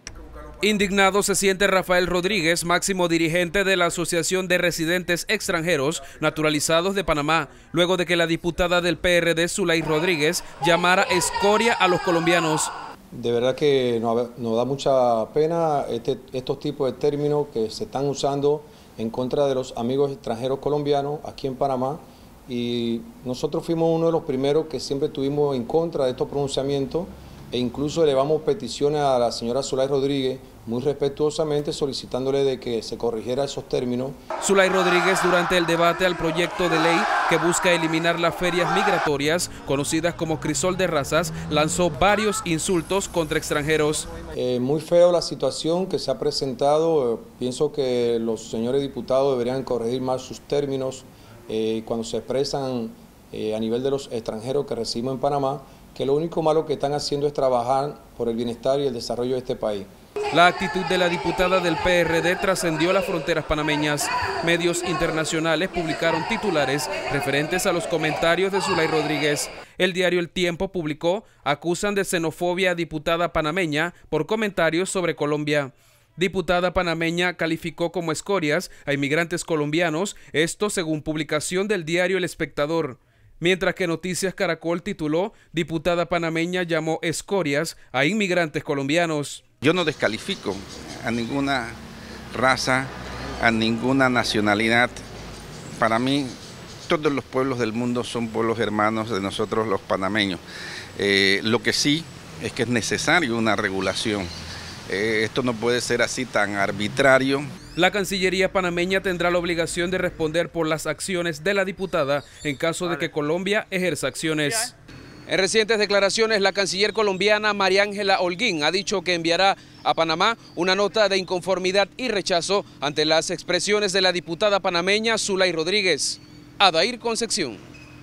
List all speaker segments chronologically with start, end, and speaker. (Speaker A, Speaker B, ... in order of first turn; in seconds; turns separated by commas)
Speaker A: 0.6-12.7, Speaker B: 13.1-34.2, Speaker A: 34.4-44.1, Speaker B: 44.3-59.9, Speaker A: 60.3-89.4, Speaker C: 89.6-91.8, Speaker C: 92.3-95.0, Speaker C: 95.8-96.3, Speaker C: 96.9-100.4, Speaker C: 101.0-104.3, Speaker C: 104.9-107.5, Speaker A: 107.8-114.8, Speaker A: 115.3-127.7